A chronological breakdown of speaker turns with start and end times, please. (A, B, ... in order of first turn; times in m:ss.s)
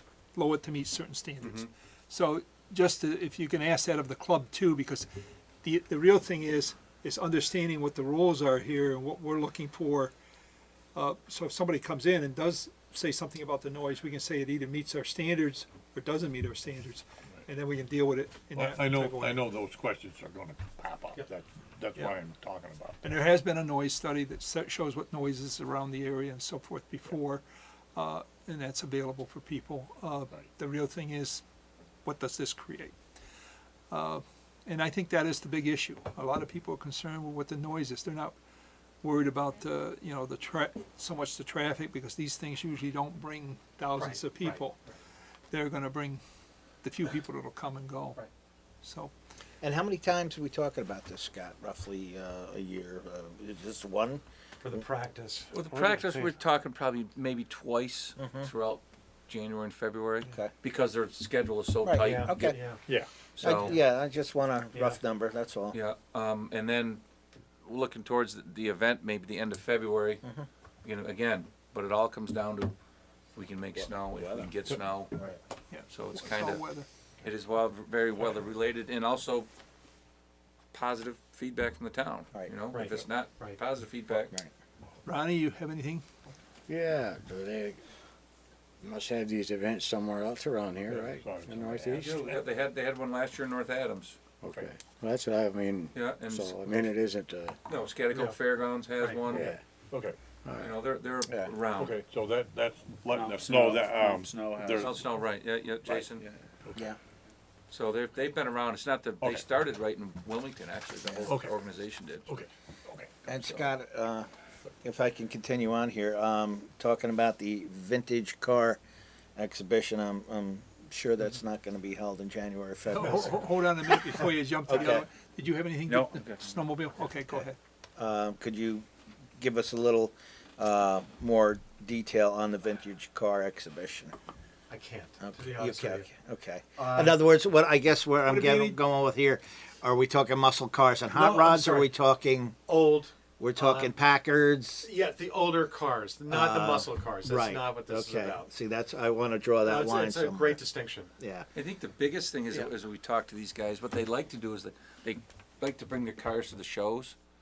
0:00.3-0:05.1 A
0:01.4-0:01.7 B
0:05.6-0:10.1 A
0:10.9-0:19.5 A
0:18.5-0:23.2 C
0:23.0-0:27.4 A
0:28.0-0:31.4 A
0:32.0-0:33.0 A
0:33.9-0:38.3 A
0:39.0-0:44.8 A
0:44.0-0:44.6 D
0:45.5-0:46.2 A
0:46.8-0:48.2 A
0:48.8-0:49.1 A
0:49.6-0:54.2 E
0:54.6-0:56.3 D
0:55.5-1:02.5 B
0:58.2-0:58.5 E
1:01.8-1:02.6 E
1:02.0-1:02.8 D
1:03.4-1:03.8 B
1:03.4-1:05.8 E
1:03.5-1:03.8 D
1:04.7-1:05.0 D
1:05.7-1:07.0 B
1:07.6-1:10.2 B
1:10.8-1:12.7 B
1:13.3-1:15.2 B
1:15.7-1:16.9 A
1:15.9-1:16.6 B
1:17.2-1:19.5 B
1:20.7-1:24.3 B
1:22.7-1:23.6 D
1:25.0-1:26.0 A
1:26.7-1:27.8 F
1:28.8-1:32.4 F
1:30.9-1:31.9 C
1:31.9-1:34.2 B
1:34.4-1:37.6 F
1:34.4-1:34.7 C
1:35.9-1:36.9 B
1:37.7-1:39.6 B
1:38.1-1:38.4 D
1:39.0-1:39.4 D
1:39.3-1:39.6 F
1:39.9-1:40.2 C
1:40.4-1:41.6 F
1:40.5-1:42.0 B
1:41.7-1:45.0 C
1:43.1-1:44.9 F
1:44.8-1:46.3 B
1:45.9-1:46.3 F
1:47.7-1:52.3 B
1:51.0-1:51.3 E
1:51.3-1:51.6 C
1:52.3-1:53.2 C
1:53.3-1:54.3 E
1:53.3-1:53.6 B
1:54.8-1:58.8 E
1:59.4-2:03.5 E
2:02.9-2:07.6 A
2:04.7-2:05.0 E
2:04.7-2:05.0 D
2:05.9-2:06.4 B
2:08.0-2:08.9 E
2:09.4-2:14.1 E
2:14.7-2:16.1 D
2:15.2-2:22.6 E
2:16.8-2:17.2 D
2:18.3-2:18.8 A
2:21.1-2:21.9 D
2:22.7-2:23.9 D
2:23.4-2:24.9 E
2:24.8-2:28.5 D
2:26.3-2:30.6 E
2:29.6-2:31.1 D
2:31.2-2:31.5 E
2:31.5-2:37.2 B